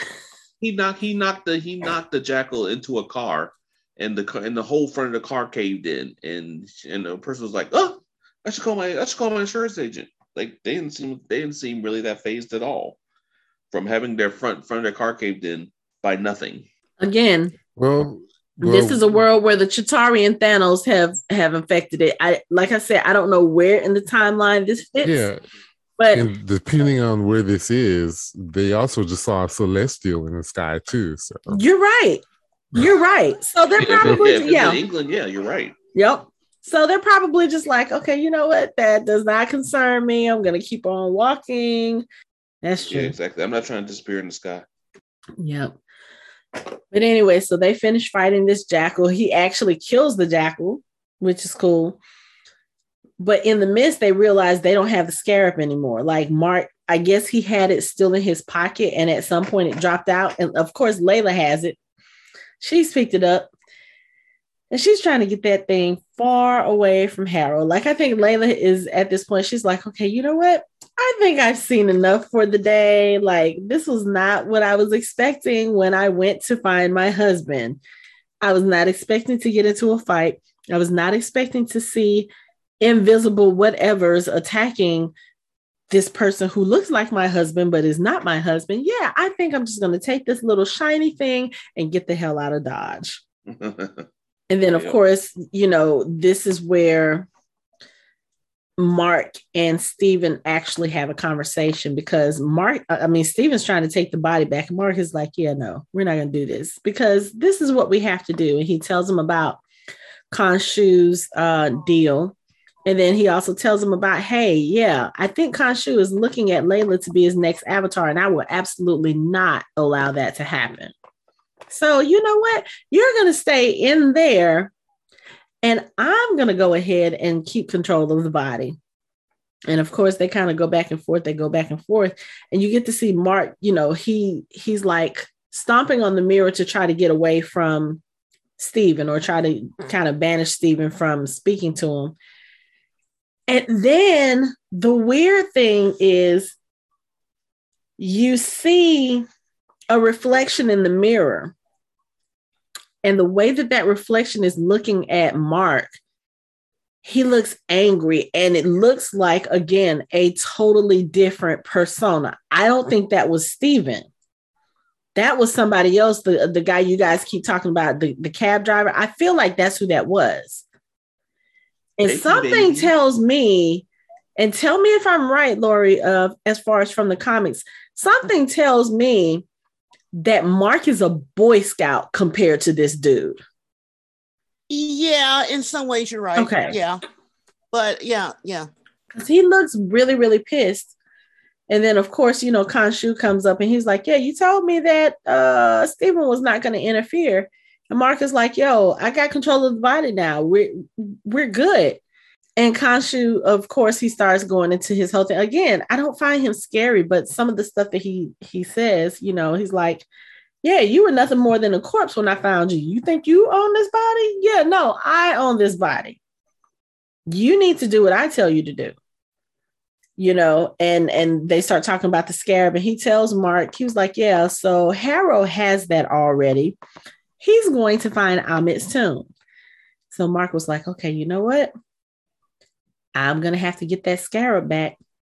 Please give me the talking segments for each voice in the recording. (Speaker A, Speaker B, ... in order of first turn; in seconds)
Speaker A: 0.6-13.0, 13.7-16.6, 33.8-35.8, 42.9-44.6, 93.5-94.1, 94.7-95.0, 172.0-172.9
Speaker B: 17.0-17.5, 18.6-25.3, 26.0-26.3, 31.5-34.8, 35.9-42.0, 42.6-43.1, 45.4-45.7, 46.9-52.0, 53.2-61.8, 62.6-63.5, 64.7-77.8, 78.4-85.1, 85.9-93.2, 94.5-97.3, 98.8-109.6, 110.3-112.3, 112.9-120.9, 121.7-124.7, 125.6-128.8, 129.7-138.0, 138.6-142.2, 143.5-146.5, 148.0-149.2, 149.9-151.5, 153.0-155.9, 157.0-164.1, 165.2-170.6, 172.0-173.8, 174.4-179.4, 180.2-183.4, 186.3-186.8, 189.1-190.9, 191.7-202.0, 202.6-210.1, 210.6-216.2, 217.3-218.9, 220.2-226.8, 227.4-229.3, 230.1-231.7, 233.1-234.9
Speaker C: 17.8-19.1, 25.0-25.4, 26.1-31.6
Speaker D: 184.7-187.0, 187.7-188.7